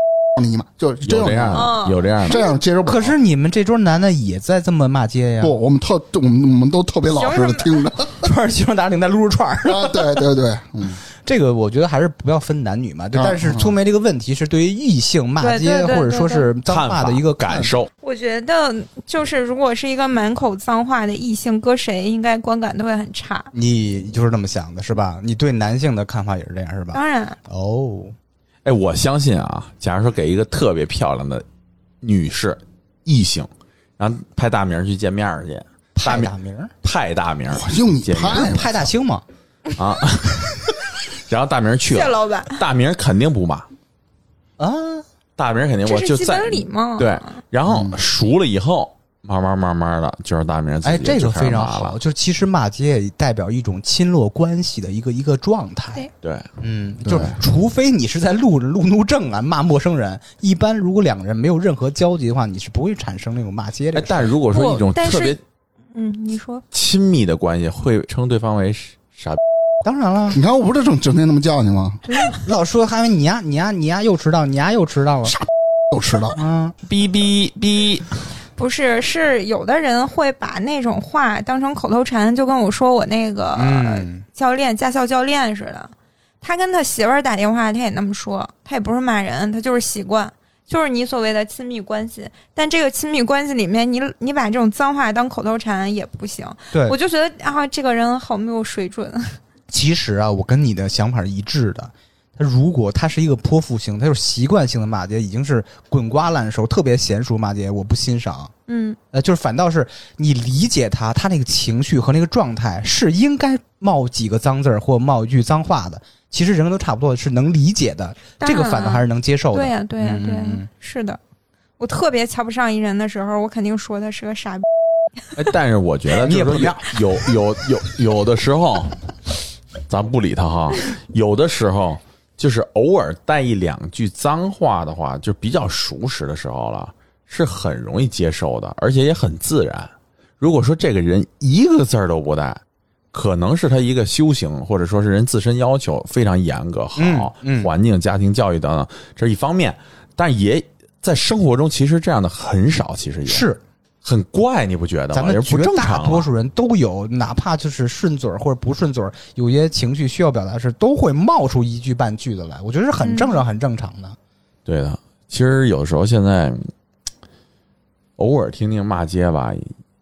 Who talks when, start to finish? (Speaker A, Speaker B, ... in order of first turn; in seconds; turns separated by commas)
Speaker A: 0.3-3.1, Speaker B: 1.0-2.5, Speaker C: 1.5-2.5, Speaker D: 2.8-5.5, Speaker A: 5.4-8.2, Speaker C: 7.1-7.8, Speaker D: 8.2-10.2, Speaker A: 9.6-11.0, Speaker D: 11.2-17.7, Speaker A: 13.1-13.7, Speaker C: 15.4-16.5, Speaker B: 16.7-17.9, Speaker C: 18.0-23.5, Speaker D: 23.5-28.1, Speaker C: 26.9-27.4, Speaker B: 28.6-31.4, Speaker B: 32.0-36.3, Speaker D: 36.0-36.7, Speaker B: 36.8-38.6, Speaker A: 37.5-38.6, Speaker D: 38.2-39.2, Speaker B: 39.7-43.7, Speaker C: 41.9-42.6, Speaker D: 44.6-45.0, Speaker B: 45.4-52.0, Speaker C: 45.9-47.4, Speaker A: 47.7-48.0, Speaker D: 50.8-56.0, Speaker B: 56.2-56.5, Speaker D: 56.6-64.3, Speaker A: 57.0-57.3, Speaker B: 63.9-65.4, Speaker C: 64.5-65.4, Speaker C: 65.9-66.6, Speaker B: 66.7-69.4, Speaker D: 69.8-70.4, Speaker A: 70.3-72.0, Speaker D: 72.1-75.4, Speaker A: 75.4-76.4, Speaker D: 76.3-76.7, Speaker B: 76.8-78.2, Speaker C: 78.5-99.4, Speaker D: 83.5-84.2, Speaker D: 96.7-97.0, Speaker D: 99.7-108.5, Speaker C: 108.7-109.0, Speaker D: 109.1-120.7, Speaker C: 118.4-121.2, Speaker C: 121.8-124.7, Speaker B: 125.3-129.0, Speaker D: 126.2-127.0, Speaker B: 129.9-142.6, Speaker B: 143.1-153.4, Speaker D: 147.0-147.7, Speaker D: 153.3-153.6, Speaker B: 154.0-156.3, Speaker D: 155.1-164.2, Speaker C: 163.0-163.4, Speaker B: 164.7-166.7, Speaker B: 168.2-169.7